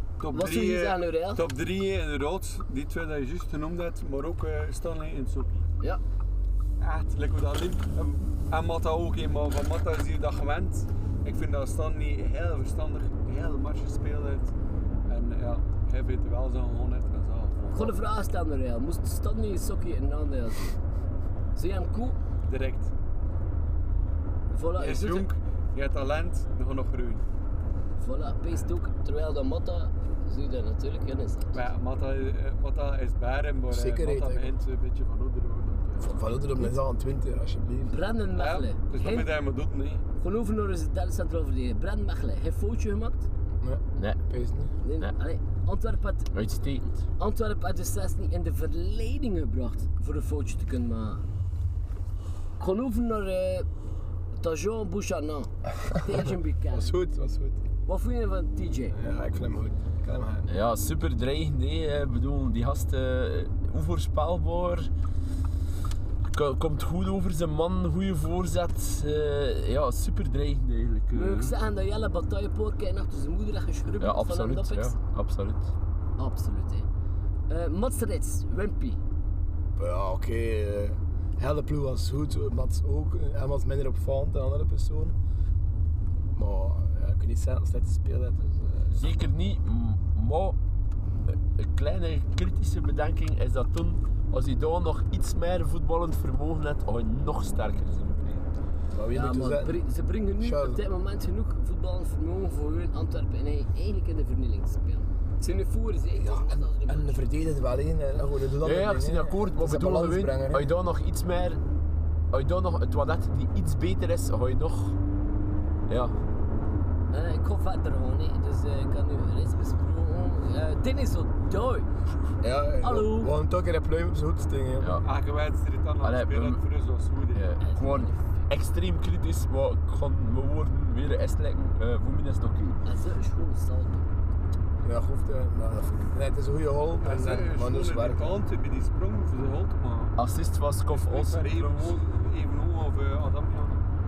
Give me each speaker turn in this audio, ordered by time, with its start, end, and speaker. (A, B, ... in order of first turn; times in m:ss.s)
0:00.2-0:05.7 A
0:00.3-0:01.4 B
0:06.8-0:14.5 A
0:15.1-0:18.0 A
0:17.7-0:20.8 B
0:21.6-0:22.2 B
0:22.4-0:22.9 A
0:24.5-0:25.3 B
0:24.8-0:27.3 A
0:28.0-0:31.6 B
0:31.5-0:36.4 A
0:33.7-0:34.5 C
0:36.0-0:38.0 C
0:37.9-0:39.3 B
0:38.3-0:40.1 A
0:40.2-0:43.3 B
0:43.6-0:44.7 C
0:44.0-0:44.2 D
0:44.8-0:46.3 B
0:46.3-0:47.1 D
0:47.2-0:51.2 B
0:52.6-0:53.7 B
0:54.4-0:56.9 B
0:56.7-0:57.6 C
0:57.9-0:59.0 B
0:58.9-1:00.5 C
1:00.5-1:04.9 D
1:06.3-1:11.5 D
1:11.1-1:15.0 B
1:14.0-1:15.7 D
1:16.2-1:16.9 B
1:17.5-1:19.0 B
1:19.8-1:25.2 C
1:26.4-1:29.1 C
1:29.0-1:30.6 D
1:31.2-1:38.5 D
1:38.9-1:39.8 C
1:39.1-1:47.3 B
1:40.4-1:40.8 C
1:46.1-1:50.7 C
1:48.6-1:51.6 D
1:52.3-1:55.0 D
1:55.9-1:56.2 D
1:57.1-2:01.9 B
2:02.4-2:05.0 C
2:02.8-2:03.3 B
2:04.8-2:05.1 D
2:05.0-2:07.6 A
2:06.0-2:06.6 D
2:07.3-2:12.8 D
2:07.6-2:08.4 B
2:12.9-2:14.1 B
2:14.8-2:18.4 C
2:17.0-2:20.2 A
2:20.2-2:22.0 D
2:20.9-2:23.8 A